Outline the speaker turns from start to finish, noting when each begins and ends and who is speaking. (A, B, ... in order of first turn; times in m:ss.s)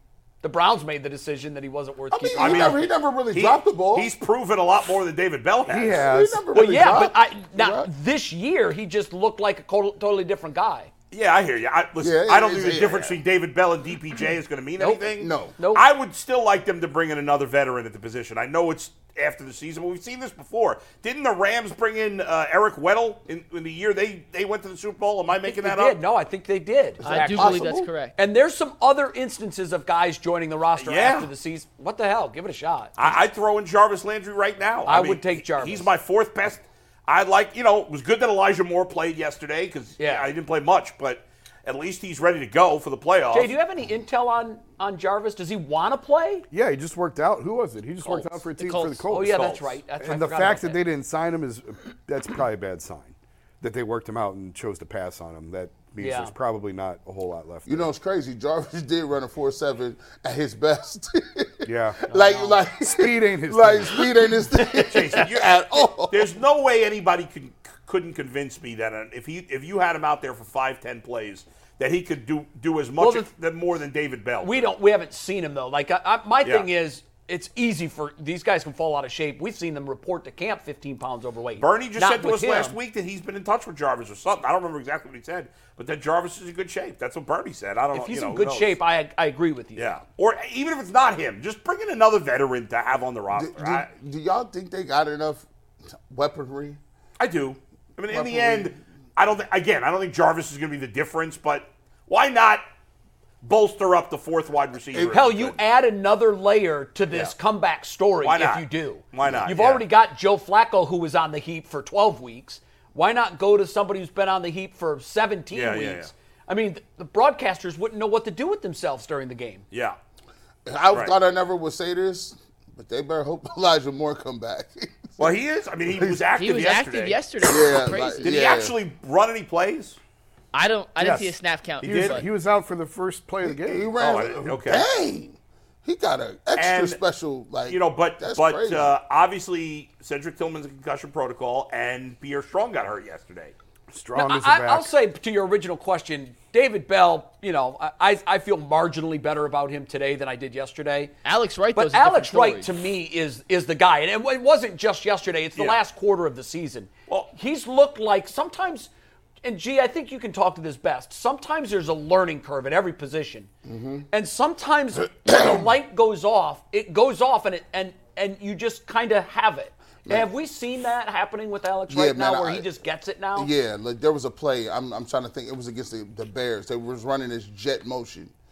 0:00.4-0:02.8 A
0:02.1-0:04.1 B
0:02.4-0:06.1 C
0:05.7-0:06.5 D
0:05.9-0:07.9 B
0:06.5-0:10.9 A
0:11.1-0:26.0 C
0:12.0-0:13.2 B
0:15.2-0:15.5 B
0:15.6-0:15.9 A
0:25.4-0:33.1 A
0:27.0-0:27.9 B
0:27.0-0:28.1 E
0:30.8-0:31.3 C
0:33.0-0:43.5 C
0:34.8-0:35.9 A
0:40.0-0:40.3 A
0:43.3-0:46.4 A
0:46.5-0:49.4 D
0:48.6-0:49.0 E
0:49.1-0:50.8 A
0:49.1-0:49.7 C
0:50.0-0:57.9 D
0:56.0-0:56.3 A
0:57.6-1:06.3 B
1:01.6-1:02.0 D
1:02.1-1:02.6 A
1:02.8-1:04.2 D
1:04.5-1:14.7 C
1:13.0-1:13.3 A
1:14.4-1:22.8 A
1:16.4-1:16.7 C
1:21.6-1:28.8 C
1:27.9-1:29.9 A
1:29.8-1:33.9 C
1:33.3-1:35.4 B
1:36.1-1:36.8 B
1:37.2-1:42.6 C
1:38.1-1:38.7 B
1:43.4-1:45.6 C
1:45.1-1:59.6 A
1:48.2-1:49.8 C
1:55.5-1:56.1 C
1:59.7-2:00.0 C
2:00.6-2:05.3 B
2:05.2-2:07.7 C
2:05.9-2:06.2 B
2:06.4-2:08.6 E
2:07.4-2:08.7 B
2:08.2-2:10.0 C
2:10.5-2:12.2 E
2:11.0-2:13.9 D
2:11.8-2:12.2 C
2:13.4-2:18.9 B
2:14.0-2:14.9 C
2:16.6-2:17.0 C
2:17.7-2:23.5 C
2:23.9-2:24.9 D
2:24.1-2:31.1 A
2:31.2-2:32.7 E
2:31.7-2:38.9 A
2:39.4-2:43.5 A
2:43.6-2:44.1 B
2:44.1-2:53.5 A
2:51.9-2:52.7 B
2:53.3-2:58.3 B